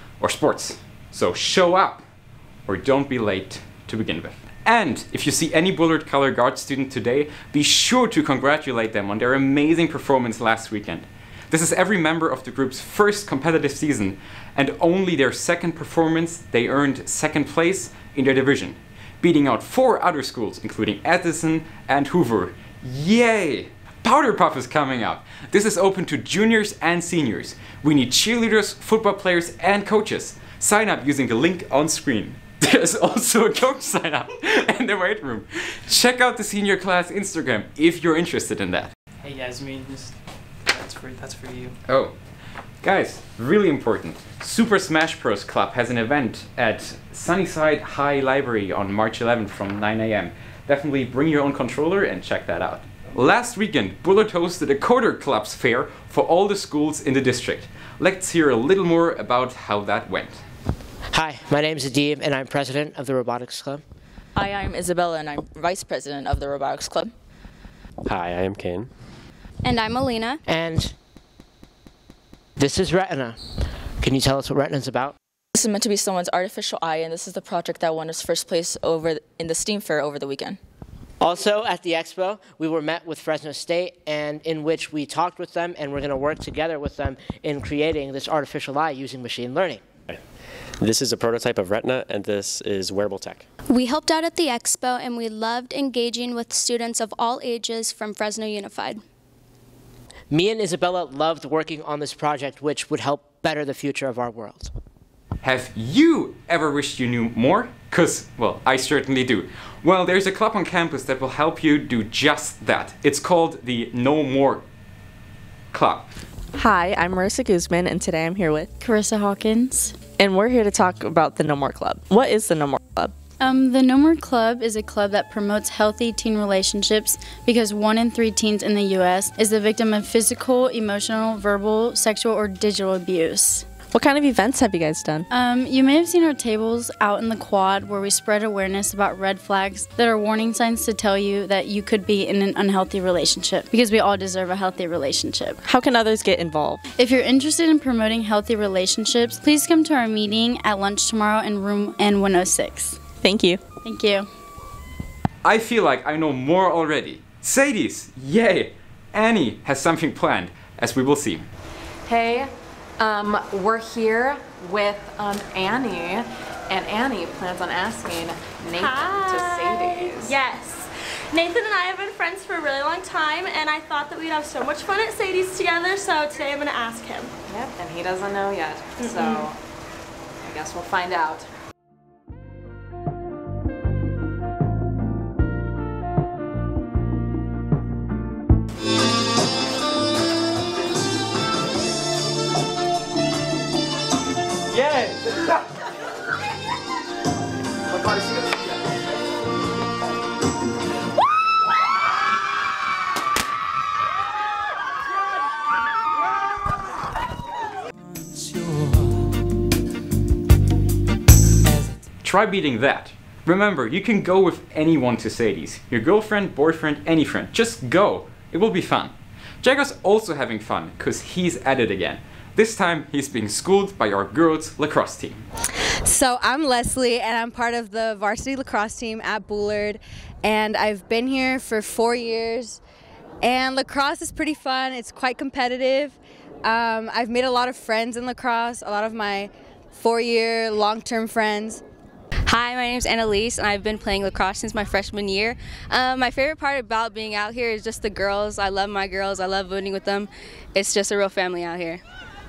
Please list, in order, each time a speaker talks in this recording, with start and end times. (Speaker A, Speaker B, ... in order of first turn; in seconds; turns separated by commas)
Speaker A: 0.2-2.0, Speaker A: 2.7-38.9, Speaker B: 39.2-40.1, Speaker B: 40.7-41.8, Speaker A: 41.9-42.1, Speaker A: 42.8-60.4, Speaker C: 61.1-63.8, Speaker D: 64.4-67.1, Speaker E: 68.1-68.9, Speaker F: 69.7-70.4, Speaker C: 70.5-70.9, Speaker C: 72.6-73.4, Speaker C: 74.0-75.1, Speaker D: 75.5-80.6, Speaker C: 81.2-89.8, Speaker E: 90.8-93.4, Speaker F: 93.7-99.0, Speaker C: 100.3-104.7, Speaker A: 105.4-114.6, Speaker A: 115.7-116.1, Speaker G: 116.6-118.7, Speaker H: 118.8-120.0, Speaker G: 120.2-123.1, Speaker H: 123.4-133.7, Speaker G: 133.9-135.3, Speaker H: 135.3-145.6, Speaker G: 145.6-146.8, Speaker H: 147.0-153.0, Speaker G: 153.2-153.6, Speaker H: 153.8-154.3, Speaker A: 155.4-161.4, Speaker I: 162.1-170.4, Speaker J: 168.7-177.3, Speaker I: 177.5-179.6, Speaker J: 179.0-179.5, Speaker I: 180.4-181.5, Speaker A: 212.2-225.4, Speaker K: 226.1-232.8, Speaker K: 233.4-236.2, Speaker K: 236.7-241.8, Speaker L: 242.4-252.0